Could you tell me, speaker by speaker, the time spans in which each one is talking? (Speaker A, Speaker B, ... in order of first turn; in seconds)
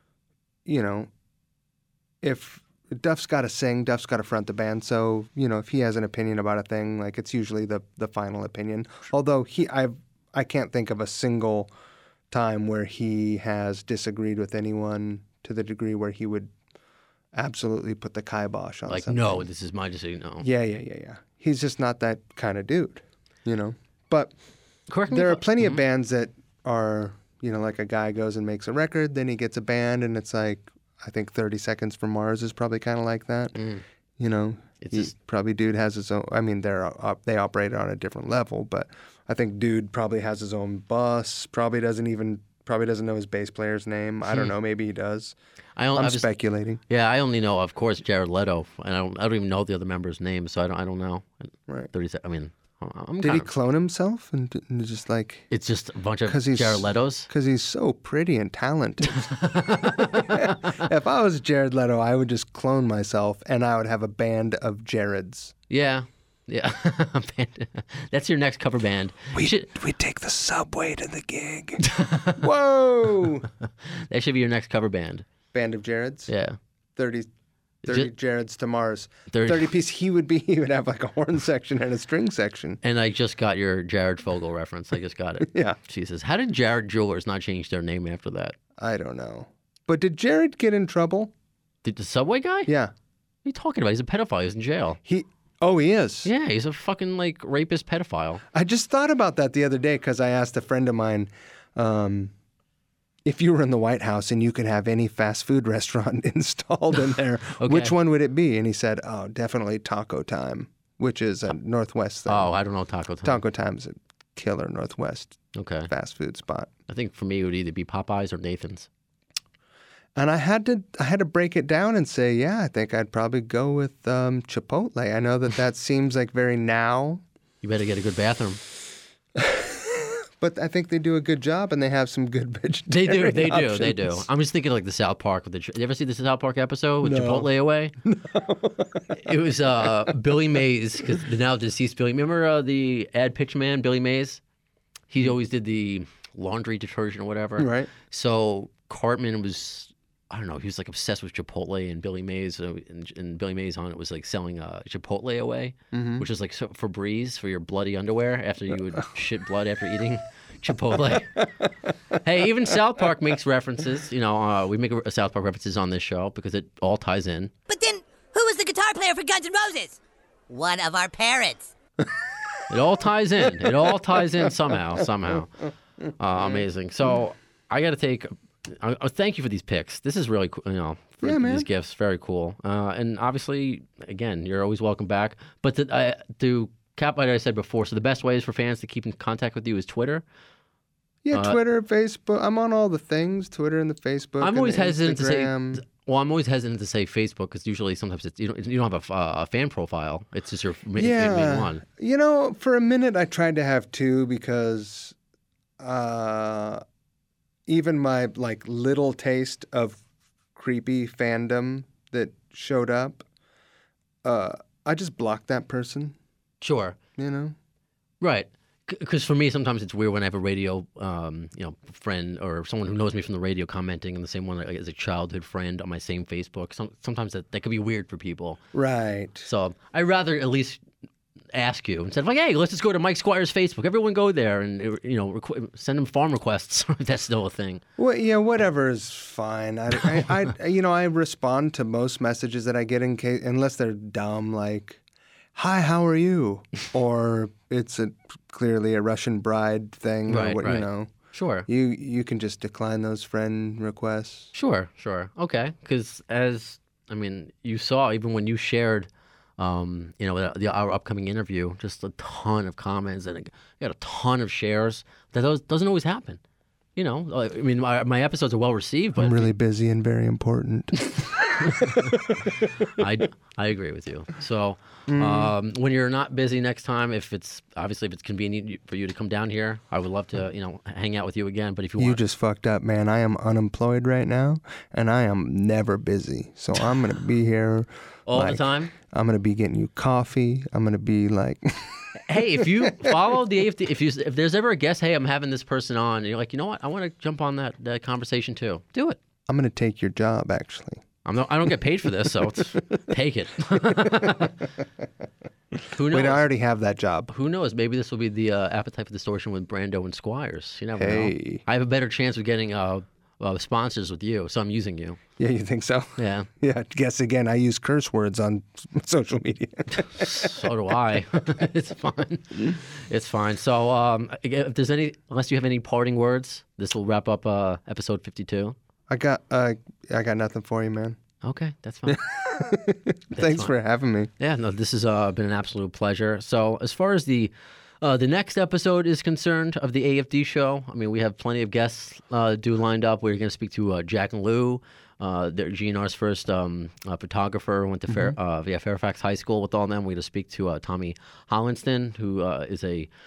Speaker A: 0.7-1.1, 2.2-11.7, 12.3-16.5, 17.3-19.5, 20.4-24.4, 25.1-33.6, 34.2-45.4, 46.0-46.8, 53.2-55.5, 56.3-65.5, 69.3-73.5, 75.5-76.3, 77.0-77.3, 77.9-82.8, 85.4-85.8, 88.8-91.3, 92.7-92.9, 95.0-96.3, 98.5-102.3, 103.2-112.5, 113.2-116.7, 120.2-127.2, 129.4-134.3, 137.0-140.2, 147.6-147.9, 155.9-156.3, 181.2-181.7, 191.2-195.8, 200.9-205.2, 205.8-206.8, 207.7-210.0, 210.6-213.2, 214.2-216.2, 217.2-217.6, 228.7-229.5, 238.0-245.0, 245.6-251.1, 251.7-254.5, 269.2-272.1, 275.1-275.5, 282.0-293.2, 299.5-301.0, 303.8-304.5, 306.1-307.3, 311.0-311.6, 315.4-320.7, 329.1-331.2, 332.1-334.3, 348.1-348.4
Speaker B: 18.9-20.5, 24.9-25.8, 33.5-33.8, 34.8-35.1, 45.8-46.3, 46.9-53.5, 55.5-57.3, 59.2-60.5, 65.7-69.7, 71.8-72.5, 73.8-75.2, 76.3-76.6, 77.8-78.1, 79.3-79.7, 82.8-88.5, 91.8-92.7, 93.5-95.0, 96.2-98.4, 107.6-108.0, 112.3-113.4, 115.5-115.9, 116.9-118.9, 127.6-128.6, 132.9-137.9, 139.1-144.4, 145.1-161.5, 162.2-167.5, 172.7-175.7, 176.2-190.2, 191.3-191.6, 194.4-201.8, 216.6-217.0, 218.2-228.6, 229.5-230.8, 231.5-237.8, 250.3-251.7, 254.5-266.4, 267.0-269.5, 271.6-272.2, 272.9-282.2, 288.3-288.9, 292.2-299.2, 301.2-304.6, 305.9-306.5, 307.3-315.2, 316.2-316.5, 319.9-328.8, 331.4-332.2, 333.4-333.7, 334.4-353.1
Speaker C: 167.7-171.7